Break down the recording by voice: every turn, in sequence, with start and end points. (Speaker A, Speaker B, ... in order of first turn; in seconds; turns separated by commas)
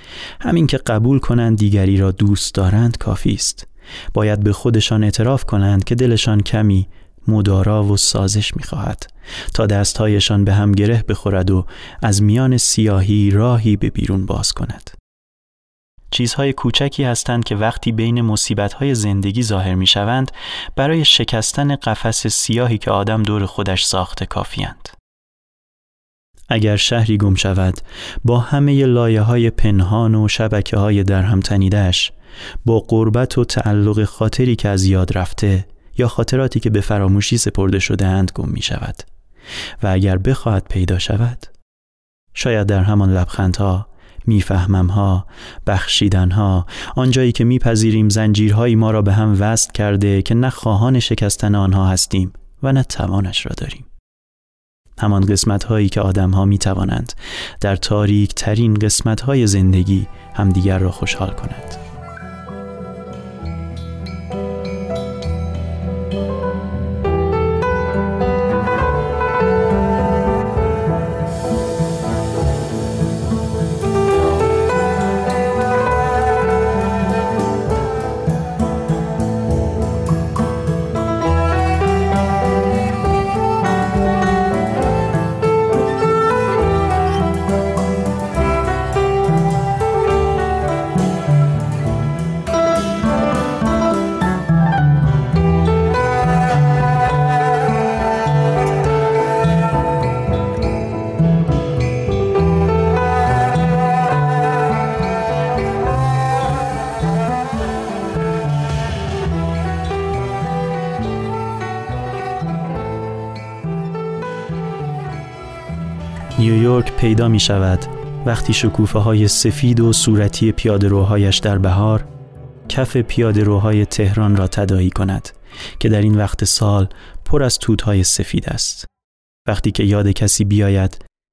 Speaker A: 0.4-14.9, Speaker A: 16.1-24.9, Speaker A: 26.5-32.1, Speaker A: 32.6-39.1, Speaker A: 39.8-41.5, Speaker A: 42.4-53.9, Speaker A: 55.0-61.8, Speaker A: 116.4-122.1, Speaker A: 122.7-128.9, Speaker A: 129.4-131.0